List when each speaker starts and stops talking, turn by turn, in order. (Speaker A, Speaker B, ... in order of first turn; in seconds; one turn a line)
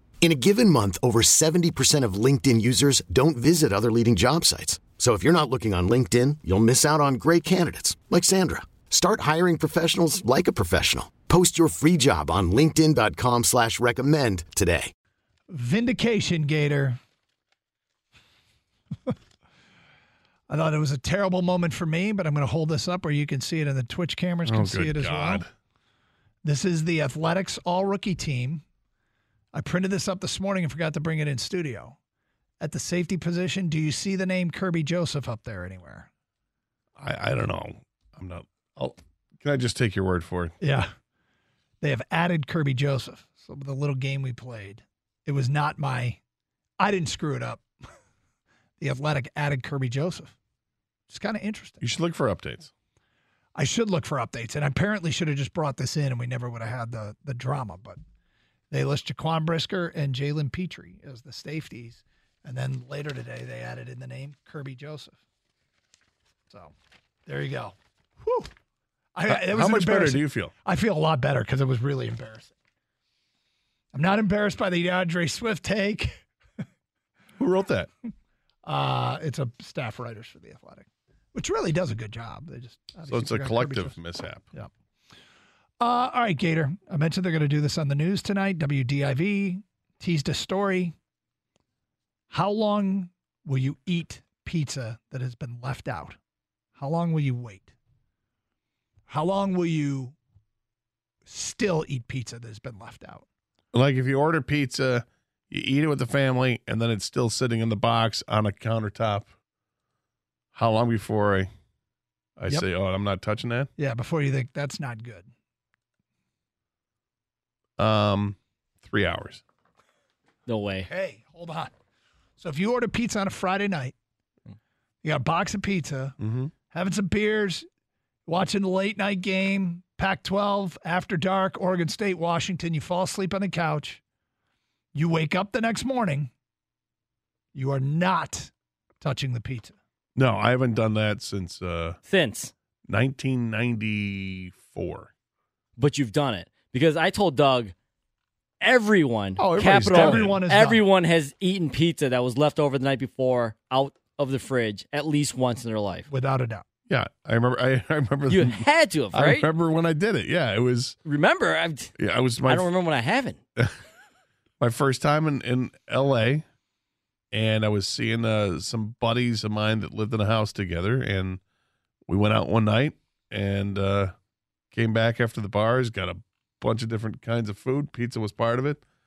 Speaker A: 0.2-14.9
Speaker B: 15.5-17.0
Speaker B: 20.5-25.5
Speaker C: 24.5-25.5
Speaker B: 26.4-28.6
Speaker B: 29.5-32.0
Speaker B: 32.6-36.1
Speaker C: 37.0-40.5
Speaker B: 40.6-40.9
Speaker B: 41.8-46.2
Speaker B: 46.8-47.6
Speaker B: 48.8-50.4
Speaker B: 51.1-51.9
Speaker C: 51.8-52.7
Speaker B: 53.6-58.0
Speaker B: 58.7-65.2
Speaker B: 67.2-68.5
Speaker B: 69.2-72.5
Speaker C: 69.3-70.5
Speaker B: 73.9-76.1
Speaker C: 77.4-77.9
Speaker B: 78.7-84.0
Speaker C: 83.1-84.5
Speaker B: 85.8-90.9
Speaker B: 92.3-96.2
Speaker B: 96.8-97.7
Speaker B: 99.1-100.1
Speaker B: 101.3-103.2
Speaker C: 103.7-109.3
Speaker C: 110.5-111.5
Speaker C: 112.4-113.7
Speaker B: 113.8-115.3
Speaker C: 117.8-119.4
Speaker D: 120.5-120.9
Speaker B: 120.9-121.7
Speaker B: 122.4-123.9
Speaker B: 125.0-126.2
Speaker C: 126.2-126.5
Speaker B: 126.7-127.6
Speaker B: 128.3-134.0
Speaker B: 134.9-136.3
Speaker B: 137.5-139.8
Speaker C: 140.2-142.0
Speaker D: 142.1-142.5
Speaker C: 142.9-145.1
Speaker D: 145.8-147.7
Speaker D: 148.6-156.1
Speaker B: 149.4-150.8
Speaker C: 149.4-150.4
Speaker B: 156.1-156.6
Speaker C: 156.9-161.0
Speaker D: 158.3-159.5
Speaker D: 161.0-161.9
Speaker C: 162.0-162.7
Speaker D: 162.4-163.4
Speaker C: 164.6-166.4
Speaker C: 167.3-171.4
Speaker C: 172.1-174.1
Speaker C: 174.7-178.8